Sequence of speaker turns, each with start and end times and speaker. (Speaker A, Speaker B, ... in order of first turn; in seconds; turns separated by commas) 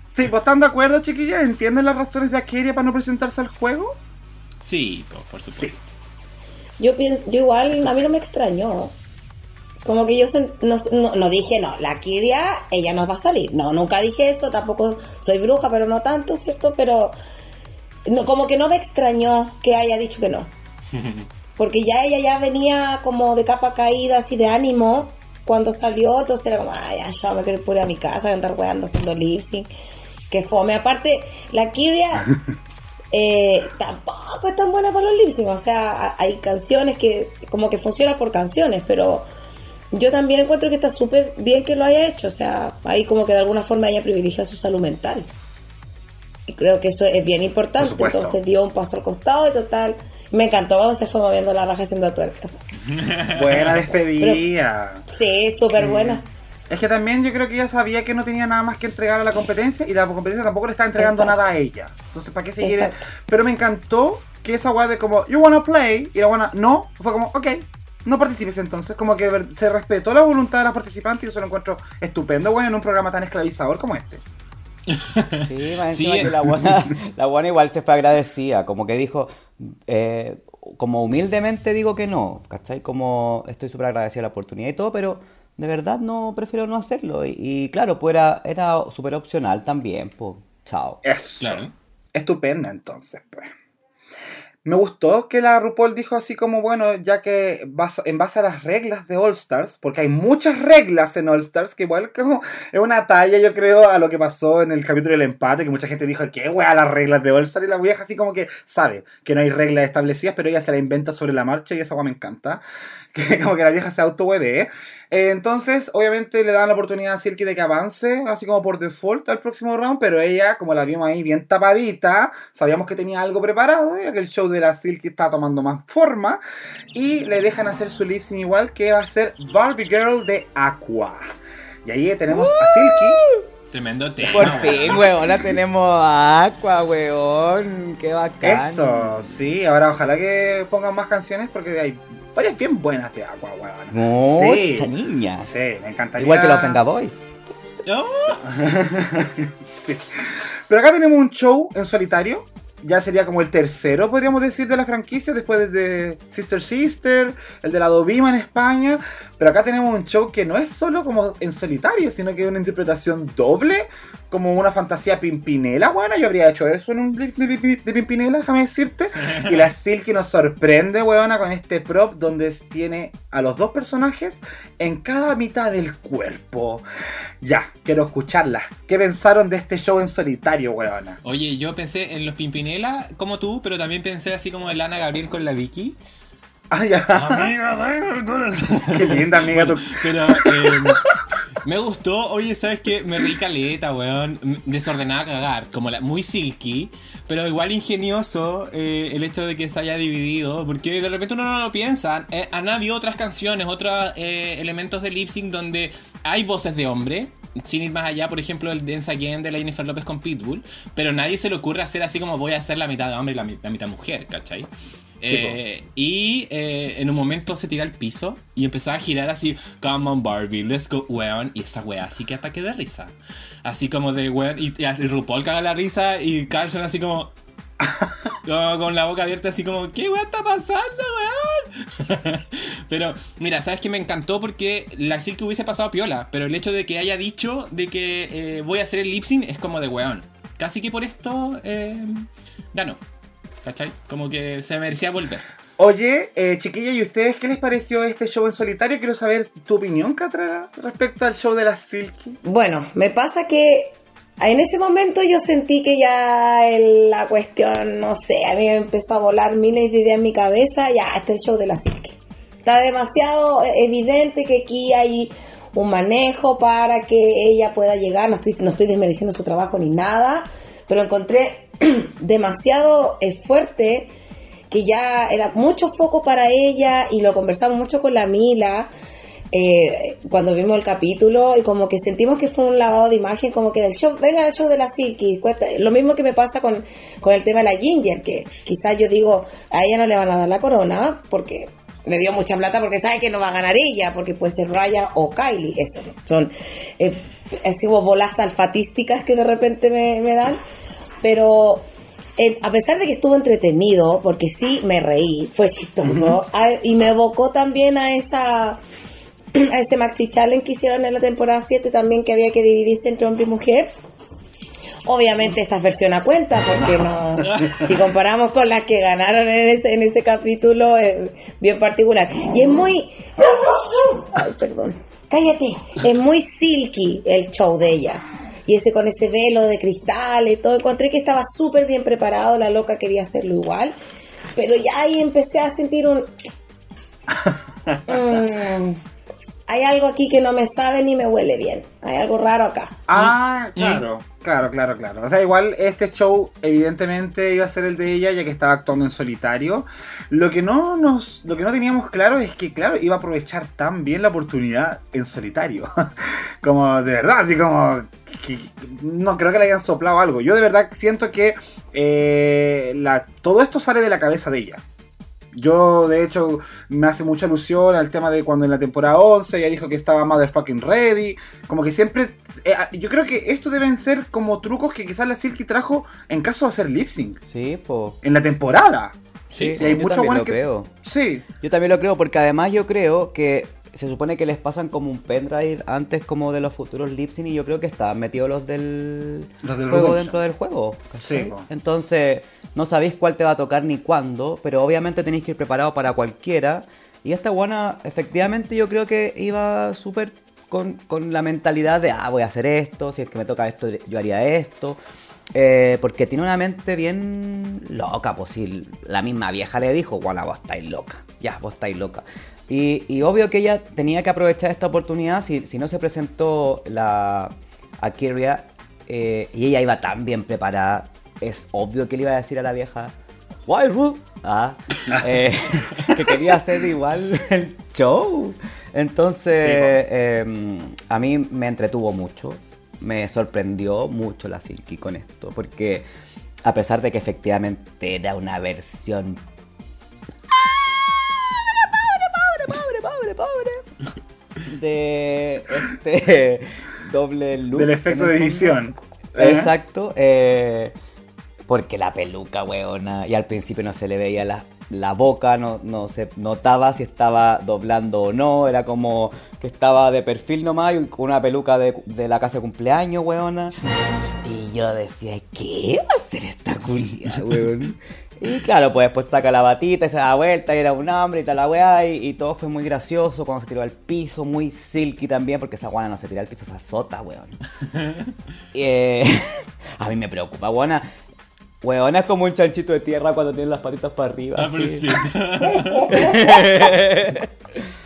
Speaker A: 0.1-4.0, Speaker B: 4.6-5.8, Speaker C: 6.8-8.9, Speaker C: 9.8-17.1, Speaker C: 18.1-20.5, Speaker B: 20.9-21.3, Speaker C: 21.6-29.7, Speaker C: 30.3-32.3, Speaker C: 33.1-39.3, Speaker C: 39.9-45.3, Speaker C: 46.5-52.6, Speaker A: 47.8-48.4, Speaker B: 52.9-53.9, Speaker A: 53.3-55.0, Speaker C: 54.2-54.4, Speaker C: 55.1-56.2, Speaker A: 55.7-74.2, Speaker C: 61.0-61.4, Speaker C: 62.6-63.0, Speaker B: 74.9-76.5, Speaker D: 75.4-91.0, Speaker A: 91.0-93.5, Speaker B: 91.4-91.7, Speaker A: 94.7-126.4, Speaker A: 126.9-131.3, Speaker A: 131.8-133.2, Speaker D: 132.3-133.5, Speaker B: 133.7-135.1, Speaker A: 134.3-134.9, Speaker D: 134.3-139.4, Speaker A: 138.4-146.8, Speaker D: 143.9-145.5, Speaker D: 146.2-147.3, Speaker B: 147.8-148.5, Speaker A: 148.3-176.8, Speaker A: 177.4-181.2, Speaker B: 181.2-186.0, Speaker A: 186.7-187.5, Speaker B: 187.1-191.0, Speaker A: 188.8-191.2, Speaker B: 191.6-214.7, Speaker B: 215.2-223.1, Speaker A: 215.3-215.6, Speaker B: 223.7-227.3, Speaker B: 228.4-243.0, Speaker B: 243.6-245.5, Speaker A: 245.8-252.4, Speaker C: 252.4-274.1, Speaker C: 274.7-278.9, Speaker C: 279.5-300.6, Speaker C: 301.2-301.9, Speaker C: 302.4-308.8, Speaker A: 306.1-306.4, Speaker C: 309.5-313.9, Speaker C: 315.1-334.0, Speaker B: 317.4-317.8, Speaker C: 334.5-336.3, Speaker A: 337.5-338.0, Speaker C: 338.1-339.0, Speaker C: 339.7-343.0, Speaker A: 343.1-364.8, Speaker B: 343.1-344.0, Speaker A: 365.5-377.4, Speaker D: 377.5-378.2, Speaker A: 378.2-379.2, Speaker B: 379.5-379.9, Speaker D: 379.6-380.9, Speaker A: 379.8-381.4, Speaker D: 381.6-405.0, Speaker A: 389.6-390.4, Speaker A: 391.2-391.7, Speaker D: 405.6-423.1, Speaker D: 423.7-436.1, Speaker A: 425.1-425.4, Speaker A: 426.0-426.2, Speaker A: 429.6-430.0, Speaker D: 436.6-439.4, Speaker D: 440.5-443.9, Speaker D: 444.6-448.8, Speaker A: 447.7-449.7, Speaker D: 449.4-450.9, Speaker D: 451.7-463.8, Speaker D: 464.4-477.6, Speaker B: 477.9-478.3, Speaker D: 478.7-481.1, Speaker D: 481.8-485.2, Speaker B: 484.6-486.4, Speaker D: 486.0-487.9